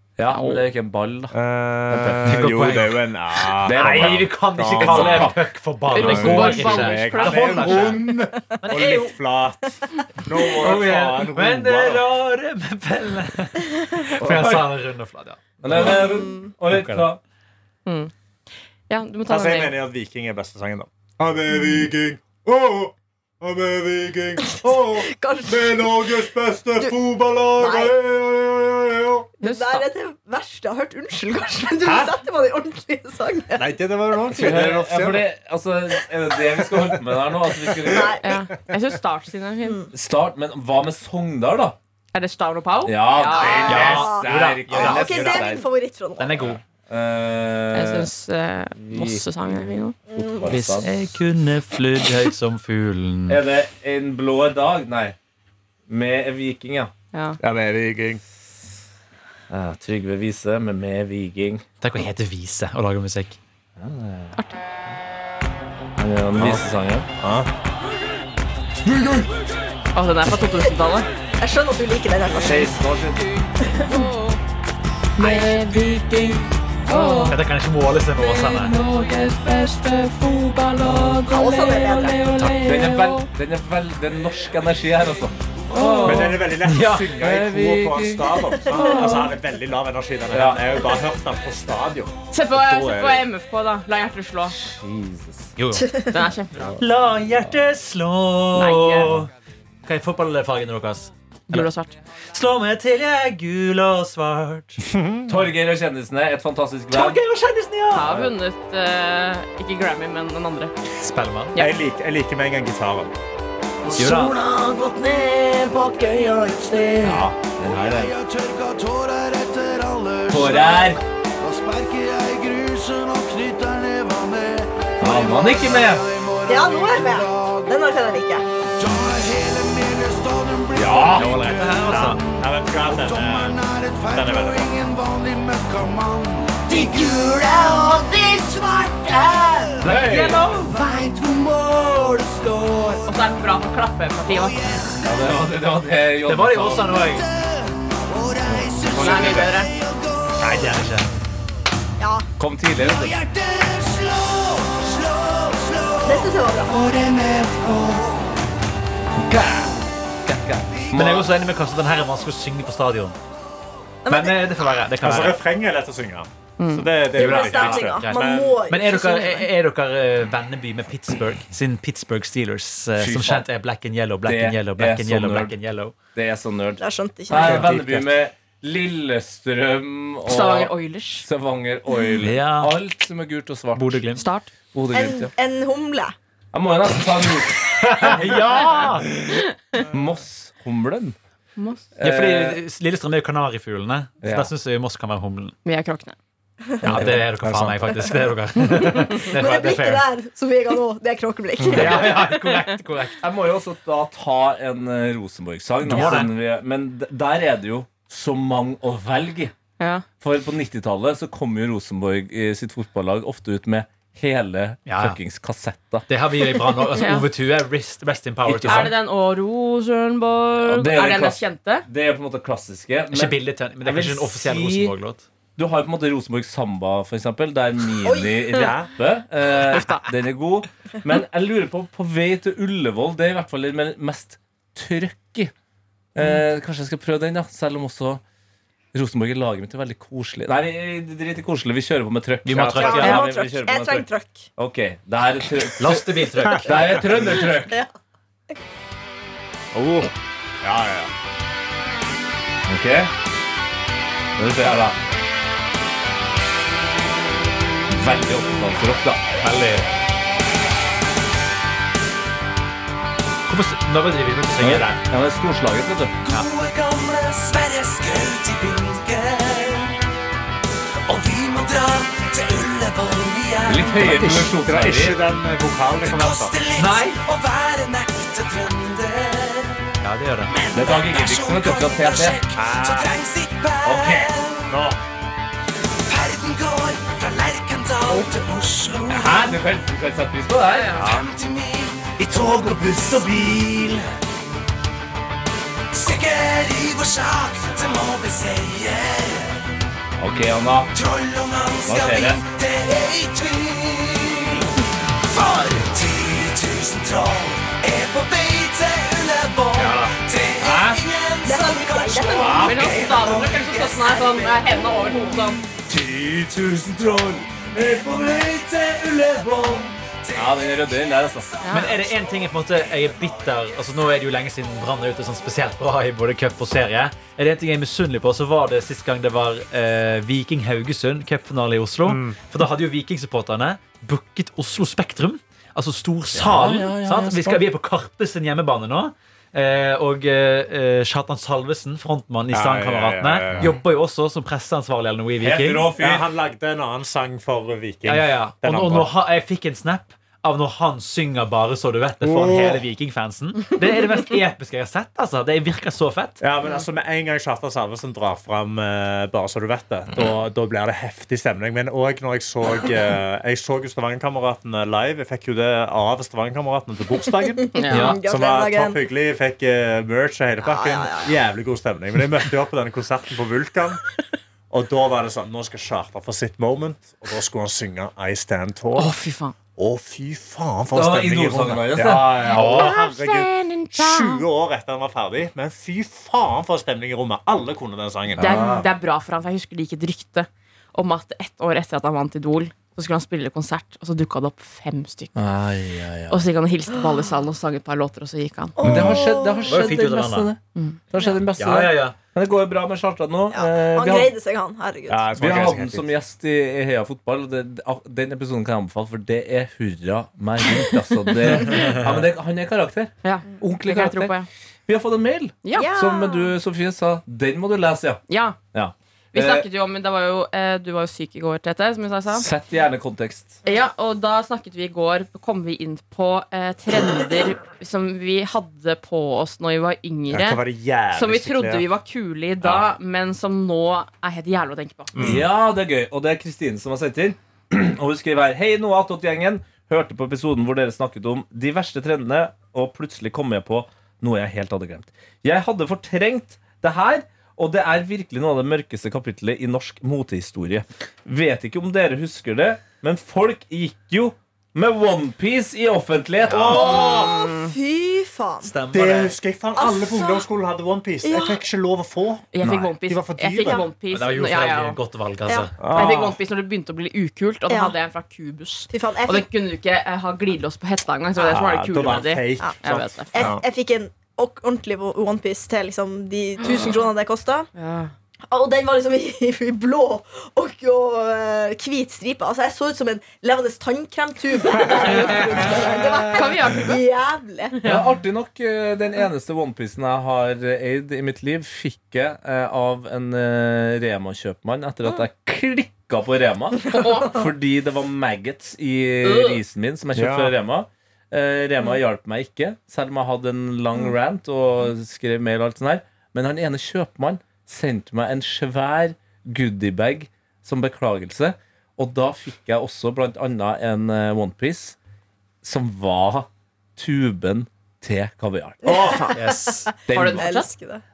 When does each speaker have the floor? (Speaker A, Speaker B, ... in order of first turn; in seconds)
Speaker A: 0.2-1.3, 1.9-2.5, 3.6-5.5, 14.2-14.7, 15.6-17.2, 34.3-38.1, 39.9-41.8, 42.9-45.6, 46.4-48.1, 48.8-50.9, 53.3-55.2, 55.9-56.9, 59.5-61.6, 63.8-64.3, 66.0-67.1, 72.3-73.2, 82.4-86.5, 87.2-88.7, 90.3-90.9, 92.6-93.2, 94.5-95.5, 105.3-107.2, 108.0-108.3, 117.0-118.2, 120.3-121.0, 125.0-126.1, 130.7-131.6, 139.8-140.5, 145.0-147.0, 148.5-149.5, 152.4-153.2, 159.2-159.7, 160.2-161.3, 173.0-173.5, 174.2-175.6, 176.2-184.0, 184.7-185.3, 186.5-189.1, 189.9-191.2, 192.0-192.6, 194.2-194.5, 196.9-197.3, 203.2-209.5, 210.2-216.1, 218.4-218.9, 220.6-224.9, 225.6-235.5, 236.2-238.2, 238.9-247.8, 252.7-253.1, 254.4-255.0, 257.9-259.2, 264.6-266.2, 273.7-275.2, 280.7-282.4, 283.9-284.2, 289.1-291.2, 292.2-294.0, 300.2-300.9, 301.9-302.4, 310.6-311.0, 312.3-313.0, 315.9-317.8, 320.3-321.5, 336.3-337.6, 345.4-346.3, 380.9-382.9, 388.4-388.9, 395.4-396.4, 398.8-400.6, 401.1-404.3, 405.4-414.4, 414.9-418.2, 418.7-419.7, 422.3-423.6, 435.2-457.0, 462.6-462.9, 465.8-466.3, 487.8-515.0, 515.6-519.2, 520.1-520.5
Speaker B: 0.3-0.6, 5.9-8.0, 17.9-18.1, 18.9-19.7, 29.4-29.9, 38.2-39.9, 42.1-44.0, 47.7-50.0, 57.1-57.4, 64.3-64.6, 69.9-71.1, 73.8-74.4, 75.2-76.0, 76.9-77.4, 92.3-94.6, 96.1-96.8, 98.6-99.1, 101.5-102.0, 107.9-110.7, 143.1-144.8, 149.0-149.7, 166.6-166.9, 180.3-181.3, 184.2-184.5, 189.3-189.8, 191.6-191.9, 195.7-196.2, 209.8-210.1, 217.0-217.3, 218.6-221.9, 229.7-230.1, 290.6-291.1, 312.6-315.6, 321.6-321.9, 367.8-368.2, 378.9-379.5, 382.4-384.5, 388.4-395.4, 396.3-398.8, 411.4-412.0, 413.2-414.5, 415.6-415.9, 418.3-418.6, 419.3-422.5, 423.7-435.3, 456.7-457.7, 462.5-465.0, 465.9-473.5, 476.6-477.0, 477.7-478.1, 485.6-487.0, 487.7-488.1, 496.9-497.4, 499.2-499.6, 520.1-520.7
Speaker C: 1.3-5.4, 6.0-12.1, 19.3-29.3, 31.8-32.1, 33.6-35.3, 37.7-38.1, 43.4-43.8, 45.0-45.5, 57.4-58.2, 66.4-66.6, 67.2-67.5, 86.0-93.0, 104.8-105.3, 111.6-113.1, 131.2-134.8, 165.0-168.6, 177.3-178.1, 196.8-198.0, 228.5-228.9, 246.4-246.8, 249.7-250.1, 250.6-251.1, 274.1-276.5, 282.5-283.1, 284.7-285.0, 332.1-332.4, 342.5-343.8, 346.0-349.1, 352.2-352.8, 356.4-374.0, 374.7-379.1, 379.8-388.8, 405.1-406.1, 430.3-431.9, 435.1-435.4, 456.5-457.4, 458.9-462.5, 463.0-463.9, 465.8-466.3, 471.5-473.6, 500.1-500.5, 518.8-519.4
Speaker D: 2.2-9.2, 10.4-16.1, 16.7-17.1, 43.7-45.1, 46.2-46.6, 50.5-53.4, 61.8-63.4, 77.3-78.8, 86.6-87.2, 95.6-96.1, 96.8-99.3, 99.8-101.7, 102.3-104.8, 106.9-108.2, 111.0-111.6, 114.0-114.4, 131.1-132.2, 139.8-140.7, 146.2-147.3, 150.4-151.1, 160.9-163.2, 164.1-165.4, 167.2-175.9, 182.2-182.8, 183.7-184.2, 187.8-189.1, 192.0-195.6, 196.8-200.1, 201.7-203.2, 205.9-206.3, 214.9-215.2, 216.1-218.9, 223.1-225.2, 242.4-243.3, 245.8-246.9, 259.4-259.9, 263.5-265.0, 276.8-277.2, 280.0-280.5, 309.8-310.1, 321.7-345.9, 348.1-356.4, 367.9-368.2, 399.7-400.5, 401.6-402.1, 458.6-459.4, 464.1-465.8, 519.4-519.9
Speaker E: 15.7-16.5, 24.5-26.2, 27.6-27.9, 29.4-34.6, 37.8-38.4, 39.6-39.9, 43.4-46.5, 50.1-50.9, 71.4-72.7, 73.6-74.1, 81.3-82.2, 88.5-89.2, 95.7-96.2, 126.5-128.4, 152.0-152.3, 156.0-156.8, 164.1-164.4, 167.1-169.5, 176.8-177.7, 184.9-186.2, 199.0-202.3, 228.0-228.7, 242.7-244.5, 247.4-247.9, 311.4-313.1, 367.8-369.0, 370.6-371.4, 396.9-397.3, 398.8-399.8, 403.5-405.6, 415.8-416.6, 456.7-458.8, 459.8-460.5, 461.2-461.6, 467.7-467.9, 468.9-469.5, 473.3-477.7, 478.5-487.8, 518.9-521.0
Speaker F: 75.2-75.7, 79.1-79.6, 114.0-117.3, 122.7-123.5, 129.0-130.8, 136.6-143.0, 144.5-145.1, 148.2-150.5, 152.8-158.3, 266.2-269.9, 271.1-274.4, 276.0-279.9, 280.5-284.7, 286.1-289.6, 291.0-294.0, 295.9-299.6, 300.9-304.7, 305.3-323.7